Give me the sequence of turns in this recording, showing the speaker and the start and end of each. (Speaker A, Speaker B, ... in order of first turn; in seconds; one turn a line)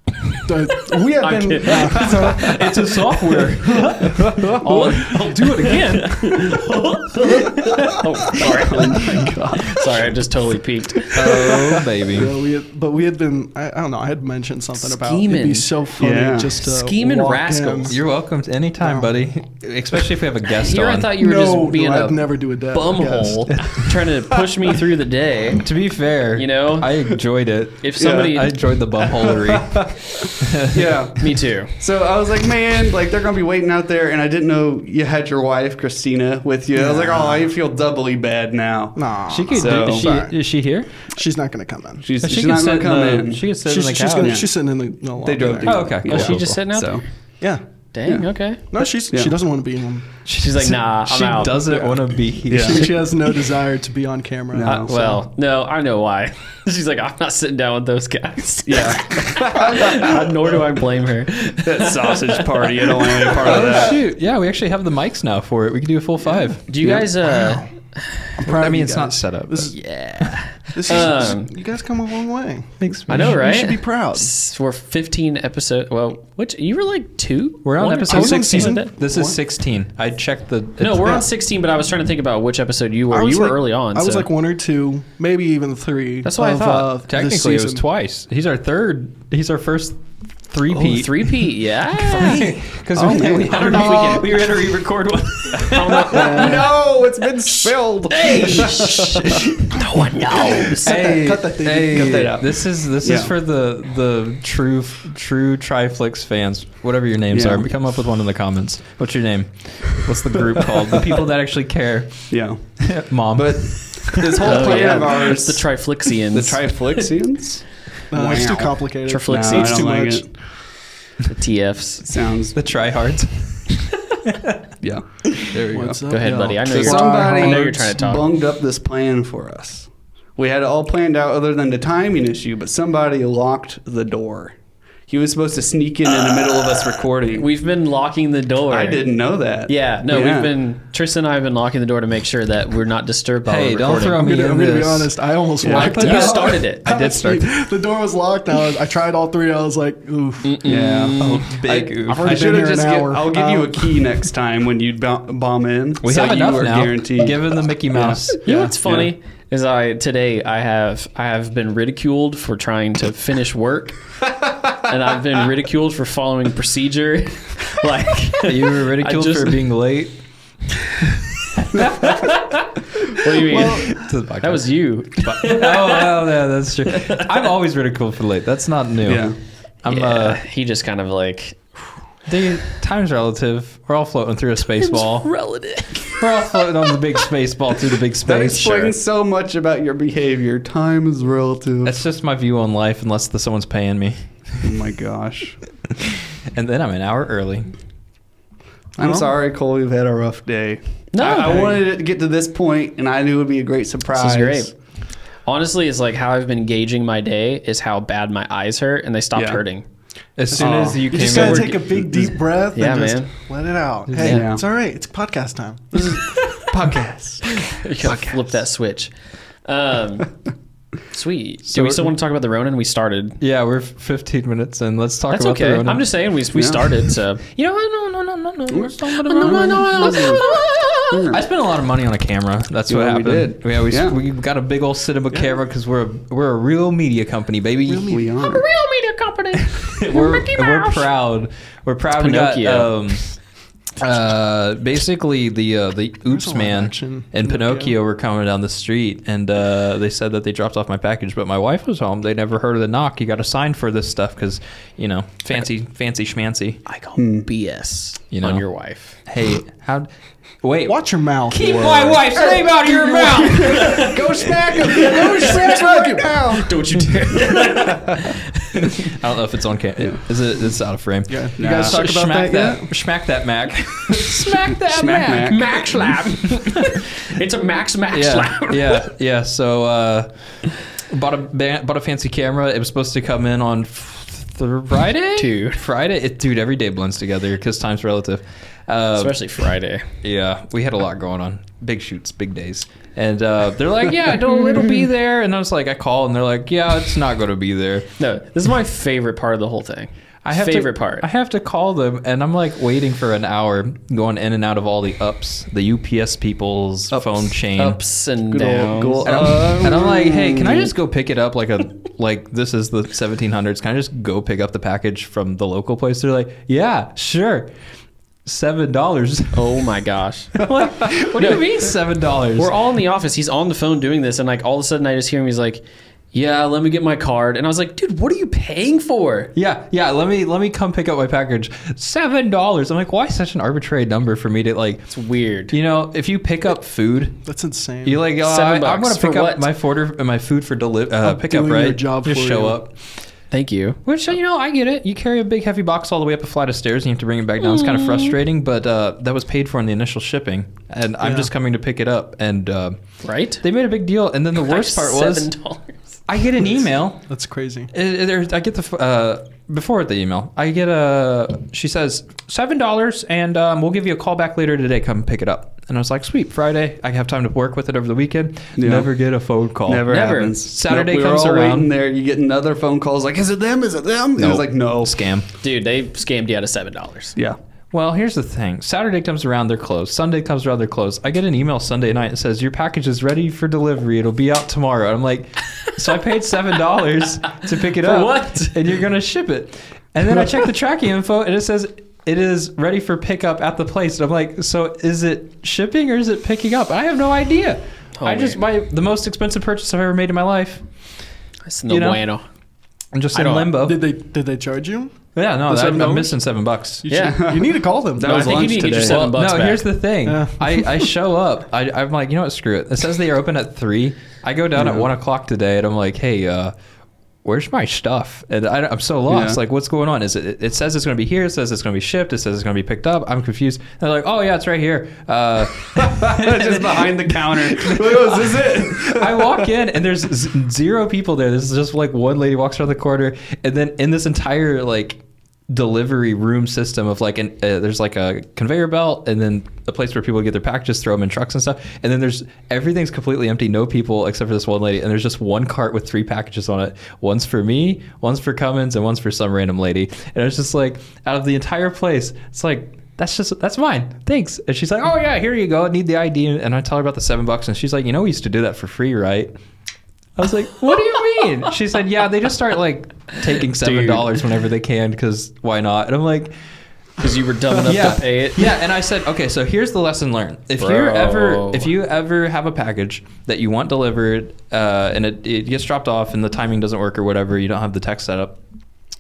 Speaker A: 0.4-3.0
Speaker B: 1.1-2.2
Speaker C: 1.6-2.5
Speaker D: 2.3-6.6
Speaker A: 3.7-3.9
Speaker C: 4.2-4.6
Speaker B: 4.6-11.4
Speaker C: 8.3-10.1
Speaker C: 11.1-11.8
Speaker D: 11.1-12.3
Speaker A: 12.1-18.0
Speaker B: 14.8-15.7
Speaker C: 16.0-16.6
Speaker B: 16.6-17.9
Speaker D: 17.9-21.1
Speaker A: 18.8-19.1
Speaker B: 20.6-25.7
Speaker A: 21.2-23.8
Speaker D: 25.6-30.9
Speaker B: 26.3-26.9
Speaker B: 27.8-28.5
Speaker C: 28.0-28.4
Speaker C: 29.0-30.1
Speaker C: 30.7-40.1
Speaker B: 31.2-31.8
Speaker A: 36.7-37.4
Speaker A: 39.0-40.4
Speaker D: 39.3-41.1
Speaker A: 41.0-42.1
Speaker C: 42.0-43.4
Speaker D: 42.2-44.4
Speaker A: 43.6-45.9
Speaker C: 44.2-44.5
Speaker C: 45.2-47.0
Speaker D: 45.6-46.6
Speaker B: 46.0-47.0
Speaker B: 47.9-48.6
Speaker A: 48.7-50.1
Speaker D: 50.2-53.1
Speaker B: 50.4-51.9
Speaker C: 52.5-52.9
Speaker A: 52.5-54.9
Speaker C: 54.5-55.2
Speaker B: 54.6-63.6
Speaker C: 58.6-60.5
Speaker C: 61.6-64.0
Speaker D: 63.4-66.6
Speaker B: 66.7-68.2
Speaker C: 66.8-67.1
Speaker A: 67.2-67.7
Speaker A: 68.4-69.8
Speaker D: 68.4-70.3
Speaker B: 69.7-71.5
Speaker A: 70.7-74.3
Speaker D: 72.8-73.5
Speaker B: 73.1-78.9
Speaker D: 77.6-81.2
Speaker A: 78.0-79.3
Speaker B: 80.8-84.3
Speaker A: 83.1-87.8
Speaker B: 86.2-86.9
Speaker D: 87.1-91.5
Speaker B: 90.7-92.5
Speaker D: 92.0-96.6
Speaker C: 93.0-94.2
Speaker B: 93.3-94.5
Speaker B: 95.6-96.7
Speaker A: 96.1-96.7
Speaker C: 96.2-99.4
Speaker D: 98.1-99.5
Speaker B: 98.1-101.1
Speaker A: 100.8-102.3
Speaker D: 100.8-114.8
Speaker C: 101.9-103.3
Speaker C: 107.3-107.7
Speaker C: 112.3-112.8
Speaker C: 113.3-115.7
Speaker B: 114.4-117.1
Speaker C: 116.3-120.3
Speaker A: 118.1-120.2
Speaker B: 119.1-120.2
Speaker B: 121.2-122.1
Speaker C: 122.0-122.6
Speaker D: 122.5-124.6
Speaker C: 124.8-134.6
Speaker A: 125.7-127.7
Speaker B: 126.1-128.3
Speaker C: 135.1-137.5
Speaker B: 137.3-139.1
Speaker C: 138.7-140.5
Speaker B: 139.7-144.2
Speaker D: 143.4-147.5
Speaker A: 144.2-150.7
Speaker C: 145.6-146.1
Speaker B: 145.7-146.9
Speaker B: 150.4-151.4
Speaker C: 150.6-159.1
Speaker D: 150.7-152.8
Speaker A: 152.0-154.2
Speaker D: 156.0-158.8
Speaker B: 158.4-164.0
Speaker B: 164.8-169.6
Speaker D: 168.4-170.2
Speaker D: 171.6-172.4
Speaker B: 172.0-172.4
Speaker B: 173.1-176.2
Speaker D: 173.3-180.4
Speaker B: 176.9-177.2
Speaker C: 179.0-179.3
Speaker B: 179.9-181.7
Speaker D: 182.3-185.4
Speaker B: 184.7-186.6
Speaker D: 186.1-188.9
Speaker C: 188.2-192.0
Speaker D: 191.8-194.6
Speaker C: 194.6-195.6
Speaker D: 196.5-197.7
Speaker C: 199.0-204.7
Speaker A: 199.0-199.3
Speaker B: 201.1-201.8
Speaker B: 204.1-204.7
Speaker B: 205.4-209.8
Speaker C: 209.3-209.6
Speaker D: 210.4-212.2
Speaker A: 210.5-216.4
Speaker C: 210.6-211.7
Speaker B: 212.7-213.3
Speaker D: 214.1-214.5
Speaker C: 214.2-214.6
Speaker C: 216.7-218.3
Speaker B: 217.6-219.1
Speaker B: 219.6-220.3
Speaker B: 221.1-223.4
Speaker D: 221.7-222.1
Speaker D: 223.4-226.1
Speaker B: 225.3-227.4
Speaker C: 226.5-227.0
Speaker D: 227.5-230.4
Speaker C: 228.7-230.5
Speaker B: 229.2-231.3
Speaker C: 231.1-231.4
Speaker D: 231.3-238.2
Speaker C: 232.9-234.2
Speaker A: 237.9-238.4
Speaker C: 238.1-238.6
Speaker B: 238.4-241.1
Speaker D: 239.8-243.3
Speaker B: 242.2-242.9
Speaker D: 244.0-256.8
Speaker A: 246.3-247.9
Speaker B: 256.9-259.2
Speaker C: 257.2-257.4
Speaker D: 258.3-258.6
Speaker D: 259.2-260.1
Speaker D: 260.6-264.2
Speaker A: 260.9-266.7
Speaker C: 261.6-262.4
Speaker B: 263.5-264.1
Speaker C: 263.7-266.7
Speaker B: 264.9-265.9
Speaker B: 266.5-269.1
Speaker D: 268.8-275.8
Speaker A: 271.3-272.9
Speaker C: 271.6-272.0
Speaker C: 274.2-275.8
Speaker B: 275.1-279.1
Speaker D: 278.1-289.5
Speaker B: 285.4-285.8
Speaker B: 289.1-290.1
Speaker D: 290.2-298.1
Speaker B: 298.2-301.2
Speaker D: 300.4-308.0
Speaker C: 307.1-307.4
Speaker B: 307.8-309.4
Speaker C: 308.5-310.9
Speaker D: 309.2-317.7
Speaker D: 318.4-319.8
Speaker B: 319.5-321.9
Speaker D: 320.6-322.7
Speaker B: 322.5-329.5
Speaker D: 329.5-335.1
Speaker B: 335.1-335.8
Speaker D: 335.7-337.4
Speaker A: 337.4-338.2
Speaker D: 338.0-343.0
Speaker B: 338.4-339.6
Speaker A: 341.2-342.8
Speaker B: 343.5-344.0
Speaker D: 344.0-353.0
Speaker B: 347.9-348.3
Speaker A: 351.2-351.5
Speaker B: 353.2-353.6
Speaker D: 353.6-355.5
Speaker B: 354.5-356.1
Speaker D: 356.3-357.2
Speaker A: 357.3-357.9
Speaker D: 357.9-371.9
Speaker C: 368.8-369.1
Speaker C: 369.9-375.2
Speaker B: 370.1-370.5
Speaker D: 374.4-375.5
Speaker B: 375.6-377.4
Speaker D: 377.9-400.8
Speaker B: 388.0-388.8
Speaker B: 398.2-398.6
Speaker B: 401.6-402.4
Speaker D: 401.9-402.2
Speaker D: 403.1-404.0
Speaker B: 403.3-403.7
Speaker A: 403.7-405.1
Speaker D: 405.4-407.1
Speaker A: 405.7-406.3
Speaker B: 407.1-407.4
Speaker C: 407.1-409.2
Speaker A: 407.2-408.6
Speaker B: 408.2-409.9
Speaker D: 409.0-416.7
Speaker A: 410.2-411.1
Speaker C: 414.8-415.1
Speaker D: 417.4-459.5
Speaker C: 419.3-419.6
Speaker C: 426.0-429.6
Speaker D: 460.4-466.5
Speaker B: 463.8-464.3
Speaker B: 467.2-468.6
Speaker D: 467.7-478.6
Speaker B: 470.8-471.9